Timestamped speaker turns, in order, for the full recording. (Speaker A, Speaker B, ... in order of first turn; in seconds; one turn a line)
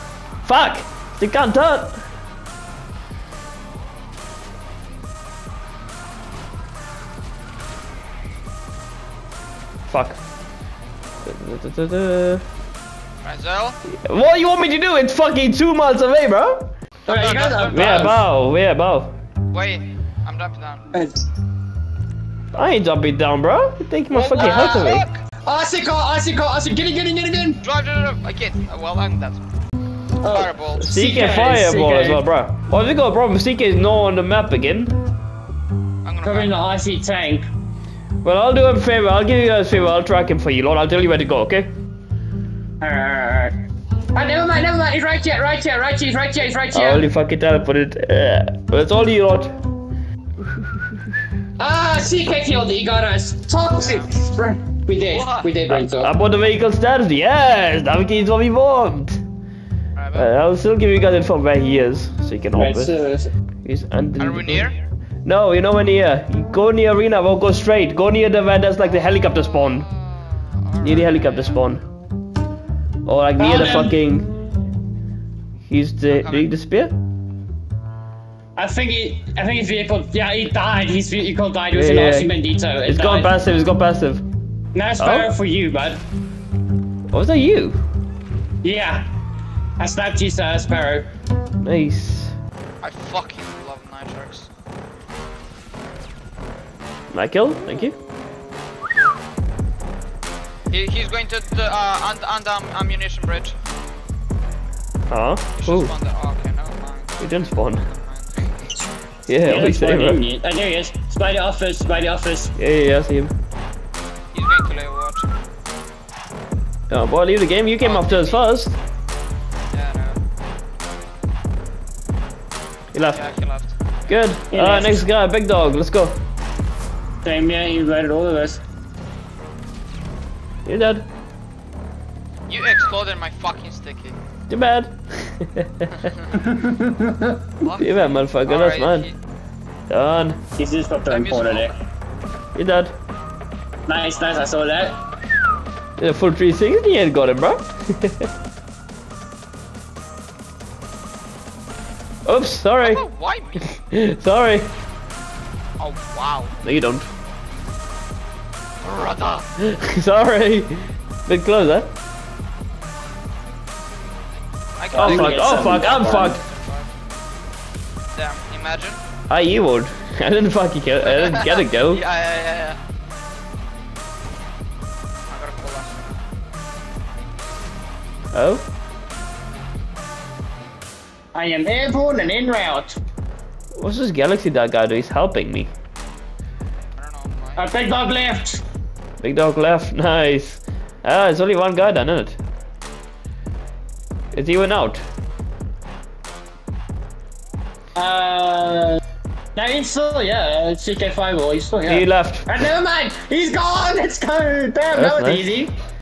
Speaker A: 0.4-2.0
Speaker A: 9.9-10.2
Speaker A: 11.2-12.4
Speaker B: 13.2-13.8
Speaker A: 13.9-16.7
Speaker B: 17.1-17.9
Speaker C: 17.1-18.2
Speaker A: 17.7-19.1
Speaker B: 19.5-20.8
Speaker C: 20.9-21.2
Speaker A: 22.5-25.1
Speaker C: 24.1-27.6
Speaker B: 24.3-25.2
Speaker B: 27.6-29.4
Speaker C: 30.2-32.2
Speaker B: 30.3-30.8
Speaker A: 30.8-35.0
Speaker B: 36.0-36.6
Speaker C: 36.2-37.5
Speaker A: 38.2-41.7
Speaker C: 42.8-43.5
Speaker C: 44.1-47.0
Speaker A: 46.7-49.5
Speaker C: 51.6-56.1
Speaker B: 53.8-54.1
Speaker B: 55.0-55.5
Speaker A: 55.7-59.2
Speaker B: 60.0-60.3
Speaker A: 60.1-62.9
Speaker C: 62.5-63.3
Speaker A: 63.6-64.7
Speaker B: 64.2-64.8
Speaker A: 65.2-69.8
Speaker B: 69.2-71.6
Speaker A: 70.8-71.8
Speaker A: 73.0-74.3
Speaker C: 73.4-74.0
Speaker A: 75.7-76.9
Speaker B: 76.1-76.5
Speaker C: 78.5-83.3
Speaker A: 81.7-84.2
Speaker C: 84.7-86.0
Speaker A: 85.0-85.3
Speaker A: 87.1-87.8
Speaker C: 88.6-89.0
Speaker C: 89.8-91.1
Speaker A: 91.6-92.3
Speaker B: 92.8-94.5
Speaker A: 97.1-98.0
Speaker B: 100.7-103.6
Speaker A: 105.1-105.9
Speaker B: 105.5-108.4
Speaker A: 107.2-107.8
Speaker A: 109.3-110.2
Speaker C: 109.4-112.5
Speaker A: 112.6-113.3
Speaker B: 114.3-115.3
Speaker A: 116.9-118.8
Speaker B: 117.8-118.5
Speaker B: 119.7-120.2
Speaker A: 122.9-123.2
Speaker B: 123.0-124.2
Speaker A: 124.1-126.2
Speaker C: 124.5-125.0
Speaker C: 127.2-128.6
Speaker A: 130.7-131.1
Speaker B: 132.5-134.2
Speaker A: 134.5-135.9
Speaker B: 136.0-136.4
Speaker C: 136.4-137.3
Speaker B: 137.6-139.1
Speaker A: 137.8-139.1
Speaker A: 139.9-140.4
Speaker C: 140.6-141.7
Speaker B: 141.1-141.7
Speaker A: 142.5-142.9
Speaker C: 143.9-144.9
Speaker B: 144.1-144.6
Speaker A: 146.0-148.3
Speaker A: 152.2-153.0
Speaker B: 152.8-153.8
Speaker A: 153.8-154.7
Speaker B: 155.8-156.5
Speaker A: 156.6-157.1
Speaker B: 158.8-159.5
Speaker A: 159.6-161.9
Speaker B: 164.8-166.9
Speaker C: 164.9-166.4
Speaker A: 165.0-166.4
Speaker B: 168.1-169.0
Speaker A: 169.3-172.0
Speaker B: 171.0-172.8
Speaker B: 175.3-176.2
Speaker A: 178.3-178.6
Speaker C: 181.3-183.0
Speaker A: 183.8-185.7
Speaker B: 186.9-187.7
Speaker C: 187.6-188.6
Speaker A: 189.2-192.4
Speaker A: 194.3-195.0
Speaker C: 197.9-199.0
Speaker C: 199.5-205.7
Speaker A: 201.8-202.5
Speaker A: 204.9-205.5